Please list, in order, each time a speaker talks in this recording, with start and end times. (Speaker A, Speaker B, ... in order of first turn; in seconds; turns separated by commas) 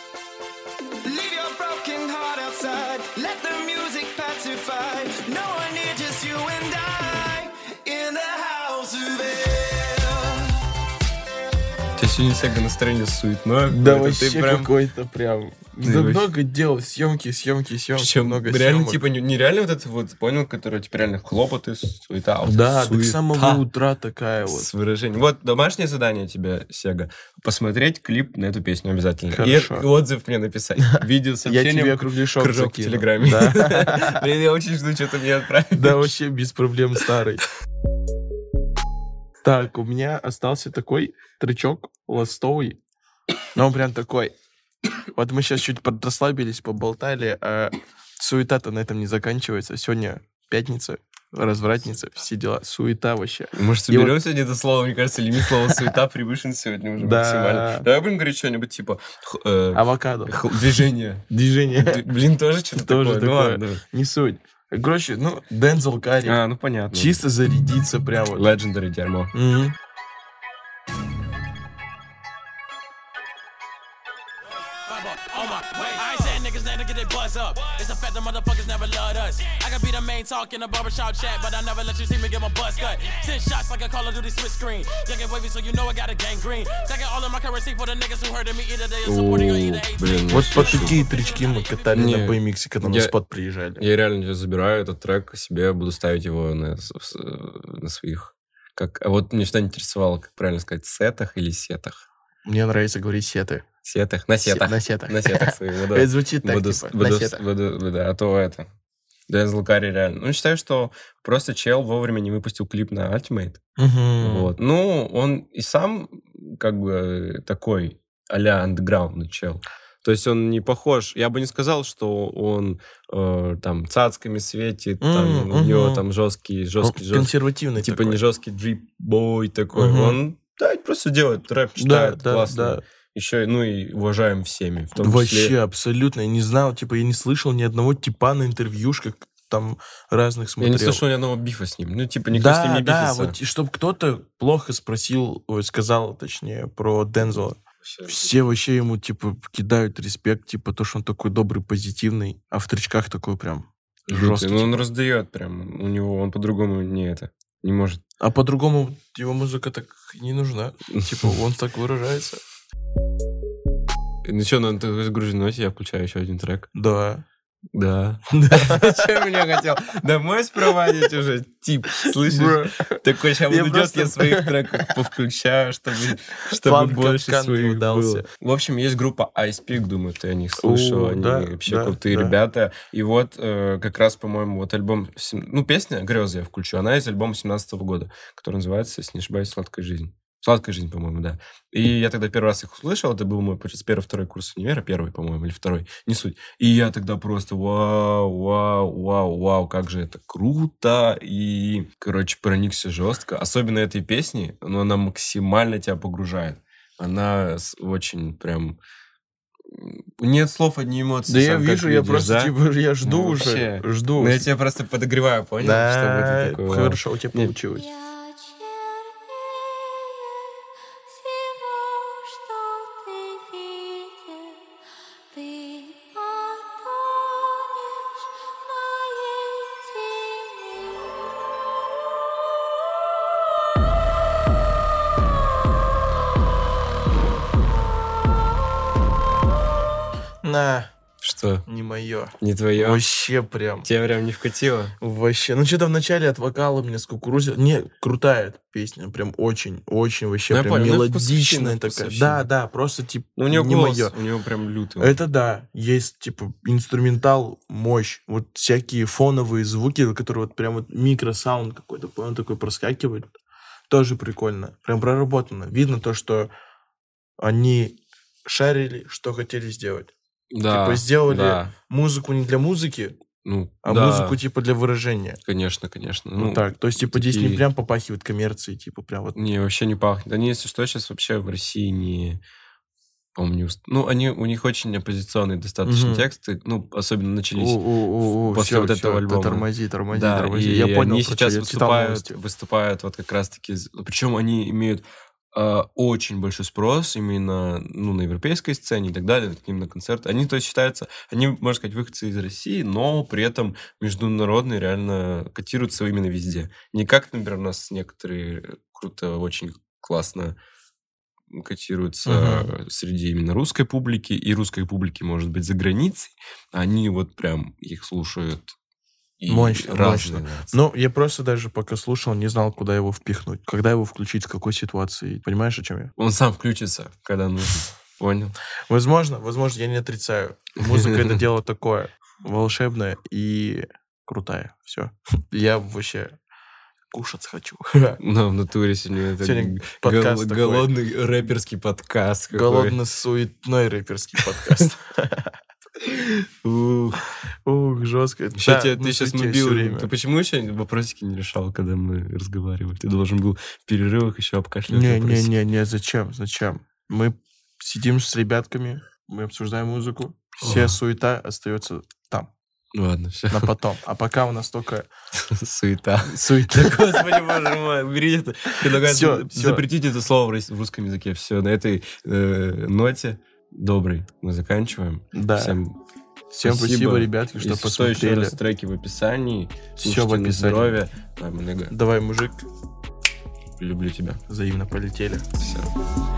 Speaker A: 1.0-10.5, Speaker B: 12.0-14.7, Speaker C: 13.7-19.0, Speaker B: 15.8-16.3, Speaker B: 17.9-23.6, Speaker C: 22.4-24.7, Speaker B: 24.4-36.1, Speaker C: 29.3-29.9, Speaker C: 30.9-34.2, Speaker C: 35.7-37.5, Speaker C: 39.4-42.8, Speaker C: 43.5-44.3, Speaker C: 45.1-54.2, Speaker B: 53.5-61.2, Speaker C: 57.0-57.9, Speaker C: 59.7-60.4, Speaker C: 61.3-62.0, Speaker B: 61.8-63.8, Speaker C: 62.8-66.4, Speaker B: 66.2-67.2, Speaker C: 66.9-68.5, Speaker B: 68.3-69.3, Speaker C: 69.3-69.8, Speaker D: 74.9-92.1, Speaker B: 89.0-91.0, Speaker C: 90.3-93.8, Speaker B: 91.9-93.2, Speaker B: 93.8-102.0, Speaker C: 102.5-103.7, Speaker B: 103.8-108.7, Speaker C: 104.5-107.4, Speaker B: 109.3-113.6, Speaker C: 113.8-114.5, Speaker B: 114.2-135.6, Speaker C: 125.0-126.0, Speaker C: 126.8-128.2, Speaker C: 129.7-130.2, Speaker C: 131.8-132.8, Speaker C: 135.0-141.0, Speaker B: 140.6-143.4, Speaker C: 142.3-154.9, Speaker B: 147.2-148.4, Speaker B: 154.1-158.0, Speaker C: 158.2-162.4, Speaker B: 164.2-166.7, Speaker C: 166.7-167.2, Speaker B: 167.8-208.8, Speaker C: 168.3-168.9, Speaker C: 172.2-174.9, Speaker C: 176.5-178.3, Speaker C: 180.6-182.4, Speaker B: 209.7-217.6, Speaker C: 211.3-214.5, Speaker C: 215.6-217.9, Speaker E: 217.8-220.5, Speaker E: 221.2-224.6, Speaker E: 225.3-228.0, Speaker E: 229.0-229.3, Speaker E: 230.2-231.3, Speaker C: 240.4-240.9, Speaker B: 241.2-241.7, Speaker C: 241.7-243.9, Speaker B: 242.4-243.1, Speaker B: 243.8-244.9, Speaker C: 245.0-254.2, Speaker B: 250.5-252.4, Speaker B: 253.4-255.2, Speaker C: 255.0-263.3, Speaker C: 263.9-266.5, Speaker C: 267.4-270.1, Speaker B: 270.5-271.7, Speaker C: 270.7-273.2, Speaker B: 273.4-274.4, Speaker C: 273.8-275.4, Speaker B: 275.4-277.6, Speaker C: 276.4-279.4, Speaker B: 279.4-282.4, Speaker B: 283.4-310.6, Speaker C: 285.9-286.3, Speaker C: 287.6-292.4, Speaker B: 311.5-318.7, Speaker C: 312.3-312.7, Speaker B: 319.4-320.7, Speaker C: 319.5-326.1, Speaker B: 326.2-328.6, Speaker C: 328.9-336.4, Speaker B: 330.8-331.4, Speaker C: 337.1-338.2, Speaker B: 338.2-343.0, Speaker C: 339.4-340.9, Speaker C: 342.5-345.5, Speaker B: 346.3-347.2, Speaker C: 347.6-350.1, Speaker B: 348.6-355.5, Speaker C: 354.9-362.5, Speaker B: 360.6-361.0, Speaker B: 362.9-363.8, Speaker C: 363.5-365.1, Speaker B: 365.4-376.0, Speaker C: 366.3-367.5, Speaker C: 368.9-369.8, Speaker C: 375.3-375.8, Speaker C: 376.5-378.6, Speaker B: 376.6-381.9, Speaker C: 380.0-381.0, Speaker C: 381.9-382.7, Speaker B: 383.8-384.4, Speaker C: 384.5-385.5, Speaker B: 385.6-385.9